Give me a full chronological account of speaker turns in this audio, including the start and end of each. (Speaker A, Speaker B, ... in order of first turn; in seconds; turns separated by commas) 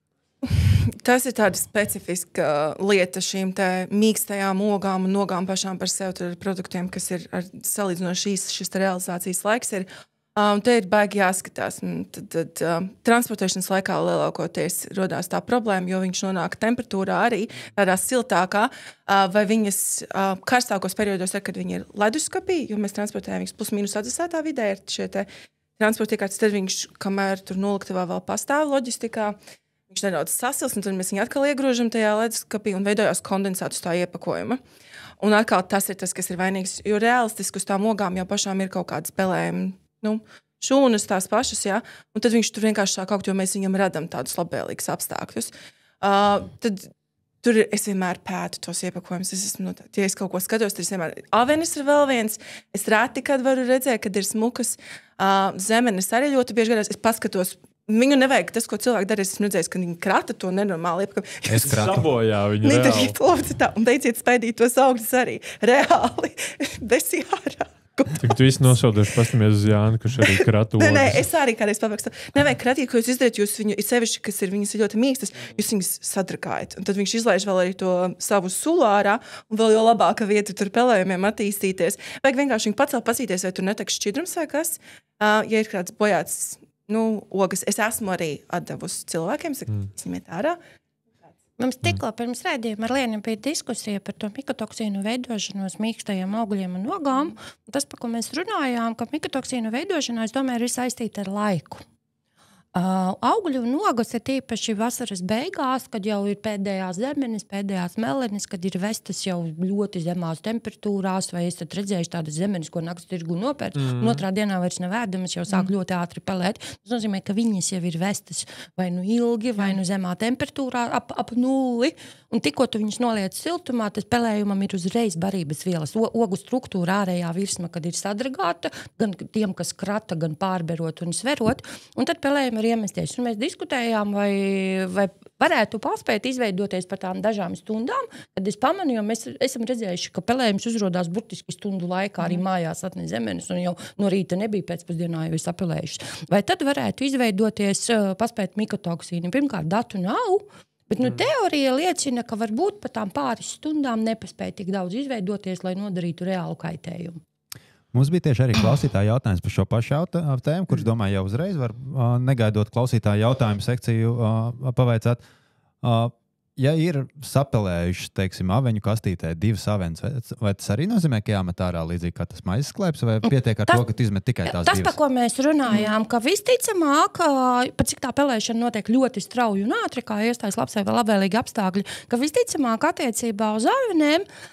Speaker A: 0.5-29.4, Speaker A: 29.9-34.6, Speaker A: 35.2-46.9, Speaker A: 47.4-61.8, Speaker B: 61.5-62.0, Speaker C: 61.6-63.1, Speaker A: 62.6-68.8, Speaker C: 68.2-71.2, Speaker A: 70.2-90.6, Speaker D: 91.6-101.8, Speaker D: 102.7-157.2, Speaker C: 113.8-114.2, Speaker B: 157.9-165.2, Speaker B: 165.8-175.0, Speaker D: 174.4-184.2